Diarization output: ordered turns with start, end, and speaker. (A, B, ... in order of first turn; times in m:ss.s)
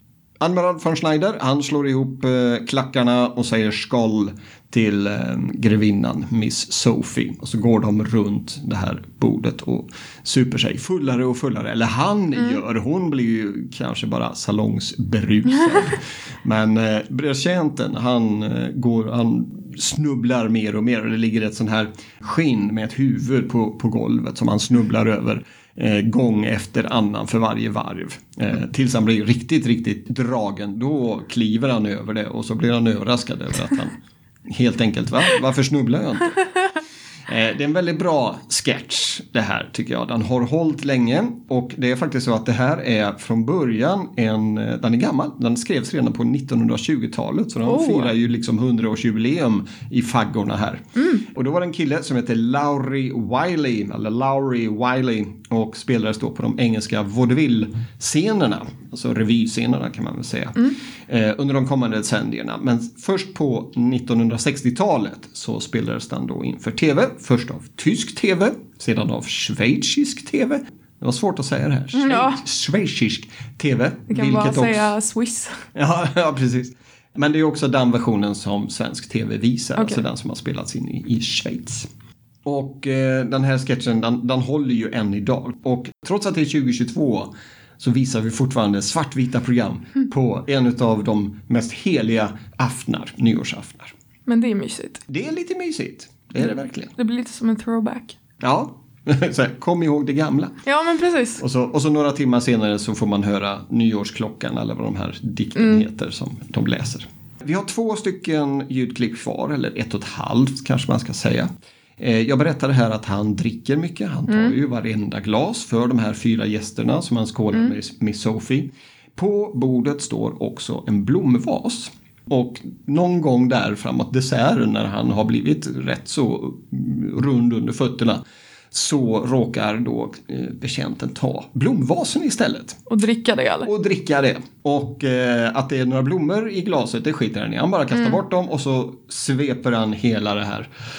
0:00.4-0:34.0 A
0:34.5-0:36.4 A
0:37.3-1:14.9 A
0:47.6-0:48.1 B
0:51.0-0:51.2 B
1:11.9-1:12.4 B
1:14.1-1:15.6 B
1:15.7-1:21.9 A
1:22.4-1:33.9 A
1:34.3-1:35.0 B
1:35.1-1:36.9 A
1:37.0-1:38.2 B
1:38.4-1:40.6 A
1:40.6-1:41.4 B
1:41.4-2:12.8 A
1:45.6-1:45.8 B
1:54.3-1:54.5 B
2:12.9-2:13.7 B
2:13.6-2:20.7 A
2:17.9-2:18.2 B